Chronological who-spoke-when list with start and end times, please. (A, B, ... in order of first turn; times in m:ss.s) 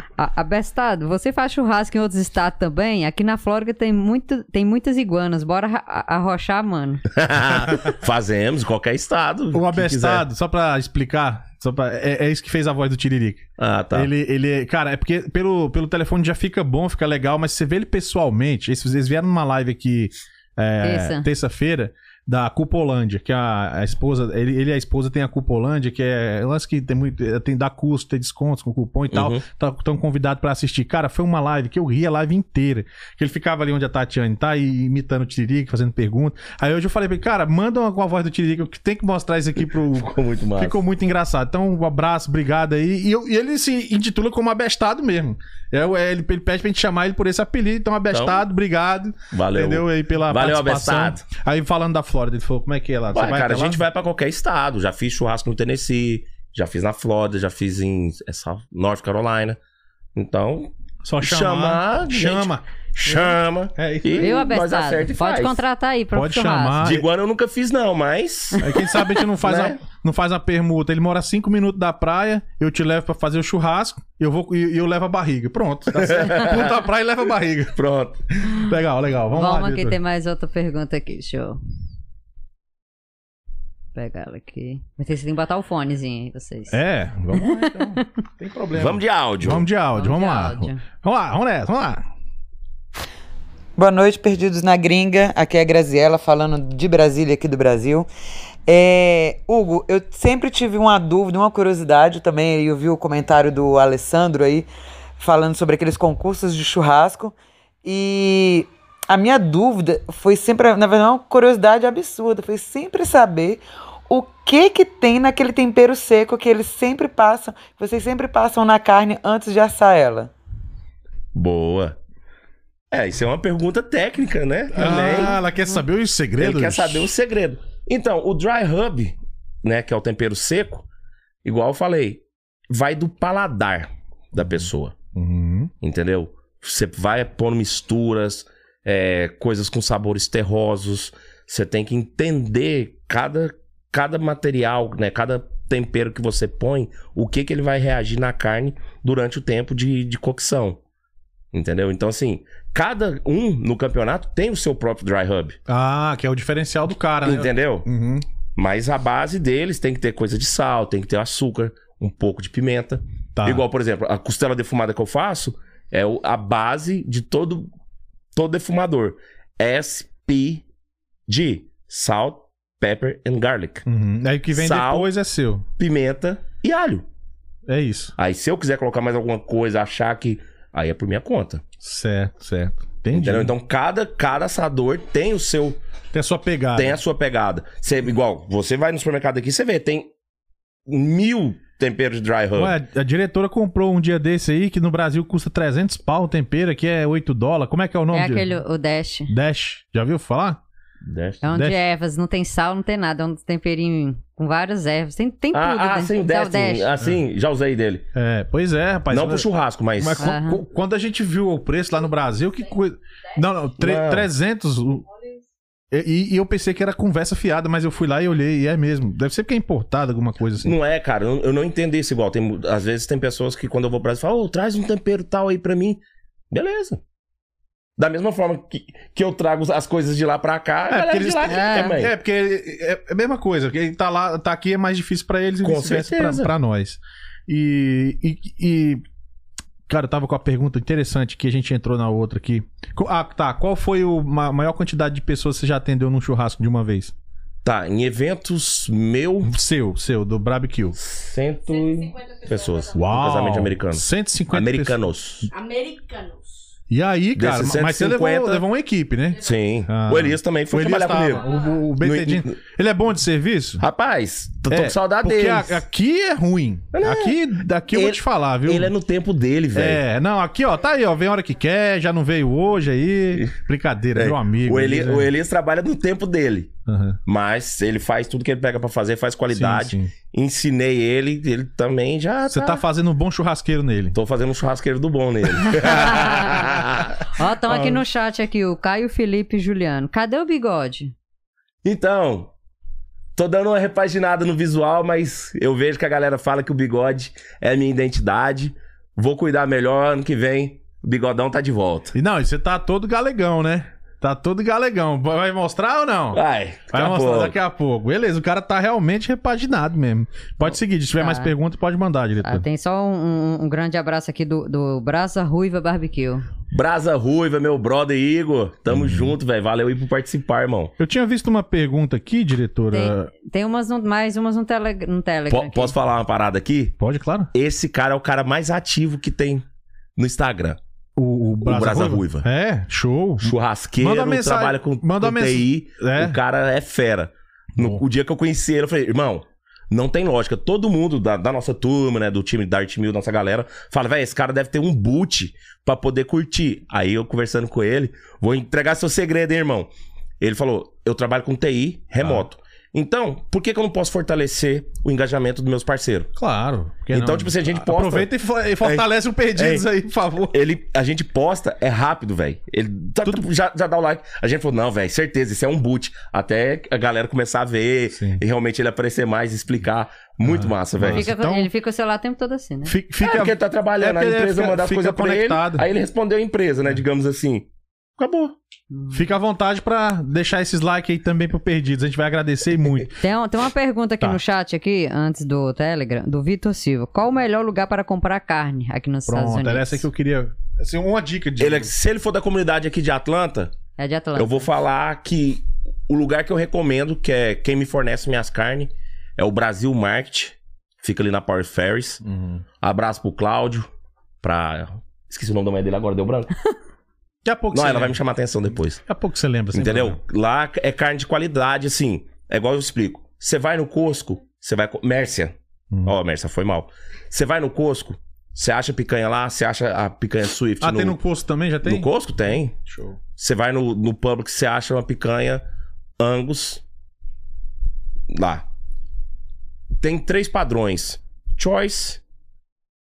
0:00.2-0:07.0 A
0:07.2-0:10.3 B
0:09.5-0:53.8 C
0:13.6-0:14.1 B
0:20.8-0:21.3 A
0:29.1-0:29.4 B
0:39.9-0:40.8 B
0:48.1-0:48.4 B
0:49.3-0:51.2 B
0:53.1-0:59.6 B
1:00.2-1:05.6 B
1:01.0-1:04.5 C
1:04.2-1:06.8 A
1:06.2-1:07.1 C
1:06.8-1:08.8 B
1:08.6-1:17.8 C
1:09.4-1:09.8 B
1:15.9-1:16.8 B
1:17.8-1:18.2 B
1:18.4-1:20.0 C
1:19.3-1:21.6 A
1:24.0-1:26.8 A
1:26.7-1:32.1 C
1:27.3-1:28.1 A
1:28.7-1:29.7 B
1:30.0-1:30.8 A
1:33.8-1:38.1 D
1:38.7-1:44.7 D
1:45.2-2:00.3 D
2:01.3-2:02.0 B
2:02.9-2:05.4 B
2:04.7-2:07.1 C
2:06.4-2:10.9 B
2:11.4-2:15.0 B
2:14.4-2:15.7 C
2:15.8-2:30.8 B
2:31.5-2:35.6 B
2:35.7-2:38.2 C
2:37.2-2:37.9 B
2:38.6-2:47.7 B
2:43.4-2:43.6 C
2:48.4-2:50.6 B
2:51.3-2:53.8 B
2:53.9-2:55.6 C
2:54.5-2:55.1 B
2:55.8-2:57.0 B
2:57.7-2:58.1 C
2:58.2-3:01.6 B
3:01.8-3:03.5 C
3:03.1-3:05.8 B
3:06.1-3:07.0 C
3:06.8-3:10.1 B
3:10.9-3:12.8 B
3:12.6-3:18.6 C
3:18.1-3:19.3 A
3:19.3-3:20.6 C
3:21.0-3:21.4 B
3:21.4-3:26.9 A
3:25.5-3:28.1 B
3:28.2-3:35.0 C
3:29.1-3:30.3 B
3:30.2-3:30.6 A
3:32.0-3:33.7 E
3:33.8-3:34.3 B
3:35.0-3:35.5 E
3:35.9-3:40.7 C
3:40.6-3:47.0 B
3:48.0-3:52.1 B
3:50.9-3:59.0 C
3:51.5-3:52.0 A
3:55.6-3:56.5 B
3:59.9-4:07.1 C
4:07.6-4:09.5 B
4:09.4-4:11.0 C
4:11.0-4:15.5 B
4:11.7-4:13.6 E
4:13.0-4:15.5 C
4:15.5-4:16.7 E
4:16.9-4:23.8 C
4:17.4-4:18.7 B
4:19.3-4:19.8 E
4:19.4-4:22.6 B
4:21.2-4:21.8 E
4:23.8-4:25.8 B
4:24.7-4:28.9 C
4:26.9-4:30.0 B
4:29.8-4:35.3 C
4:34.2-4:36.7 B
4:36.9-4:37.2 C
4:37.3-4:42.8 B
4:39.5-4:40.1 C
4:42.5-4:44.2 C
4:44.1-4:48.0 B
4:45.6-4:51.1 A
4:51.8-4:52.5 B
4:53.4-5:02.1 B
5:02.1-5:06.4 C
5:06.3-5:07.6 B
5:06.9-5:12.6 C
5:10.6-5:11.5 A
5:12.4-5:16.5 A
5:16.7-5:20.9 B
5:18.9-5:19.3 C
5:21.0-5:23.3 C
5:22.9-5:25.9 A
5:25.5-5:27.0 B
5:27.0-5:27.5 C
5:27.5-5:29.6 B
5:30.2-5:30.8 B
5:31.2-5:36.4 C
5:31.6-5:32.5 B
5:33.4-5:56.3 B
5:37.8-5:38.0 C
5:56.4-6:00.6 C
5:57.1-5:58.3 B
5:58.8-5:59.9 B
6:00.5-6:11.3 B
6:08.1-6:08.4 C
6:10.4-6:11.7 C
6:11.1-6:12.9 A
6:12.9-6:15.9 C
6:13.2-6:18.6 B
6:18.9-6:19.3 A
6:19.1-6:23.1 C
6:23.2-6:30.0 A
6:29.3-6:31.9 C
6:31.6-6:33.7 B
6:34.0-6:34.7 A
6:34.4-6:42.2 B
6:42.2-6:42.6 C
6:42.8-6:43.9 B
6:44.4-6:46.6 B
6:47.4-6:48.2 C
6:47.7-6:49.0 B
6:49.0-6:50.2 C
6:49.7-7:01.2 B
7:00.8-7:02.1 C
7:01.8-7:02.8 B
7:02.8-7:03.2 C
7:03.4-7:05.6 B
7:06.2-7:06.8 B
7:08.3-7:08.6 B
7:10.0-7:12.2 B